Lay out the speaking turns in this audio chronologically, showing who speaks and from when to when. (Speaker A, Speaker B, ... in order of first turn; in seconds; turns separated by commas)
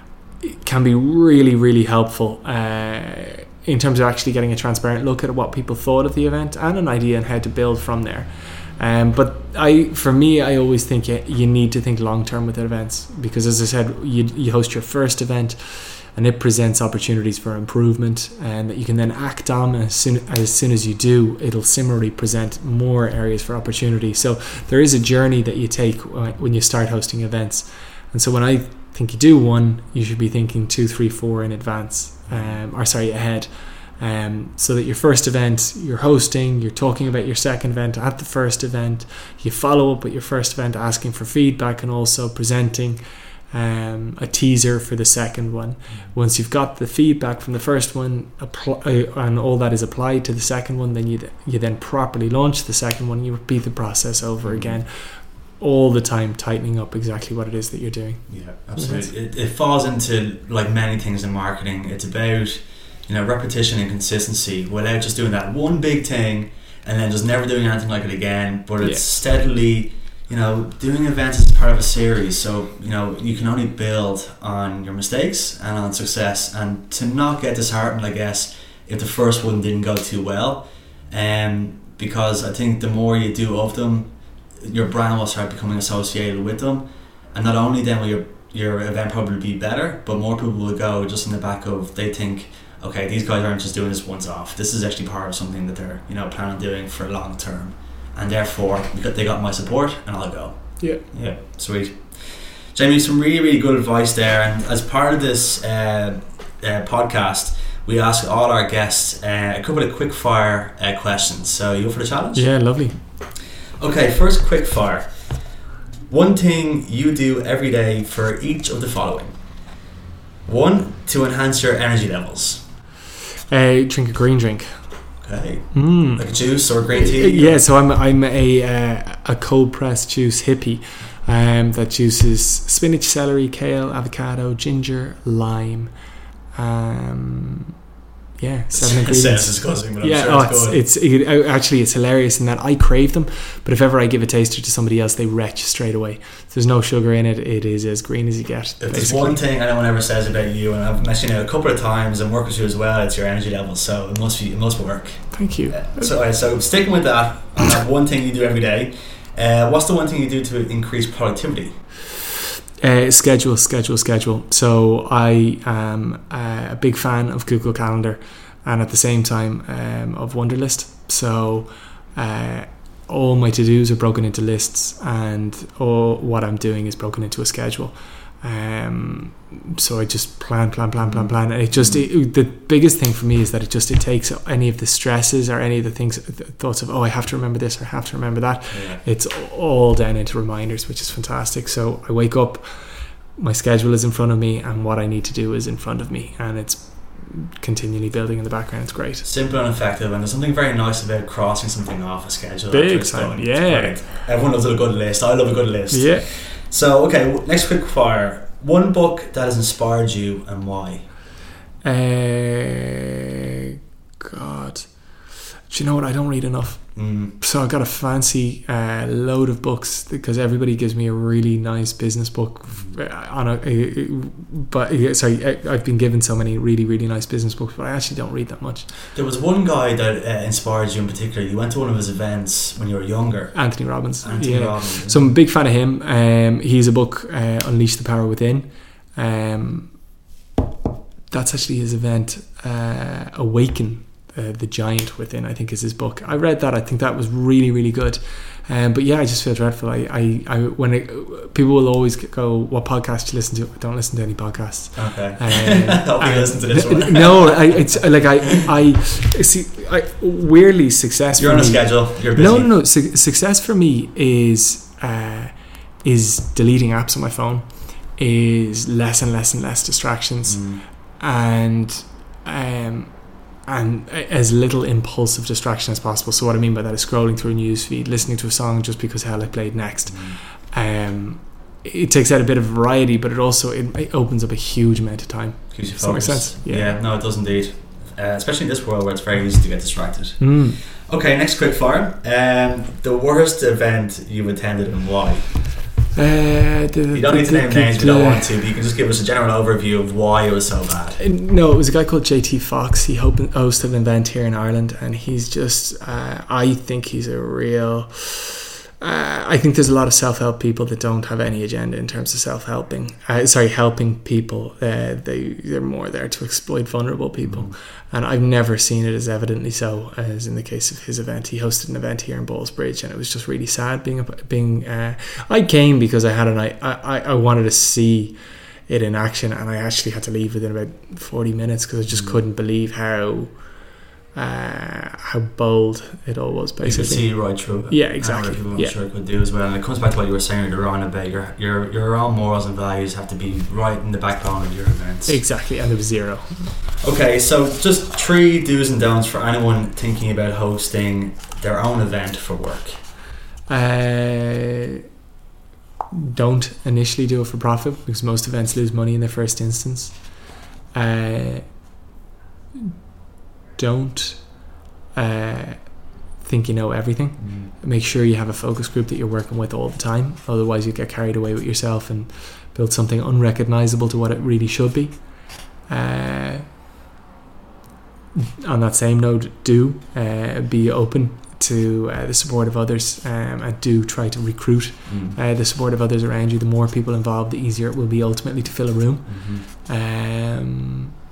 Speaker A: 0.4-59.1, Speaker B: 32.3-32.6, Speaker B: 54.4-54.8, Speaker B: 58.3-113.2, Speaker A: 100.8-101.1, Speaker A: 112.3-113.0, Speaker B: 113.8-119.6, Speaker B: 120.4-122.6, Speaker A: 123.5-125.1, Speaker B: 125.2-127.6, Speaker A: 125.7-136.0, Speaker A: 136.5-137.7, Speaker A: 138.4-149.4, Speaker B: 138.7-140.8, Speaker B: 148.8-161.8, Speaker A: 155.3-156.1, Speaker A: 162.8-199.3, Speaker B: 181.0-182.1, Speaker B: 188.7-189.0, Speaker B: 199.2-211.1, Speaker A: 202.7-204.1, Speaker A: 205.9-206.3, Speaker A: 211.8-212.9, Speaker A: 214.2-228.9, Speaker B: 216.9-217.4, Speaker B: 222.7-223.0, Speaker B: 229.1-235.4, Speaker A: 233.5-240.1, Speaker A: 241.3-287.0, Speaker B: 254.9-258.6, Speaker B: 261.4-262.7, Speaker B: 270.5-270.8, Speaker B: 280.1-280.4, Speaker B: 285.7-295.8, Speaker A: 290.4-290.8, Speaker A: 296.1-298.5, Speaker B: 297.1-301.2, Speaker A: 301.2-333.7, Speaker B: 317.4-317.8, Speaker B: 332.1-332.4, Speaker A: 334.3-338.9, Speaker B: 336.8-345.6, Speaker A: 345.3-346.8, Speaker B: 347.0-353.0, Speaker A: 353.7-354.8, Speaker A: 356.2-361.9, Speaker A: 363.8-376.6, Speaker B: 367.4-367.7, Speaker A: 378.6-391.1, Speaker B: 385.1-385.4, Speaker B: 389.3-389.6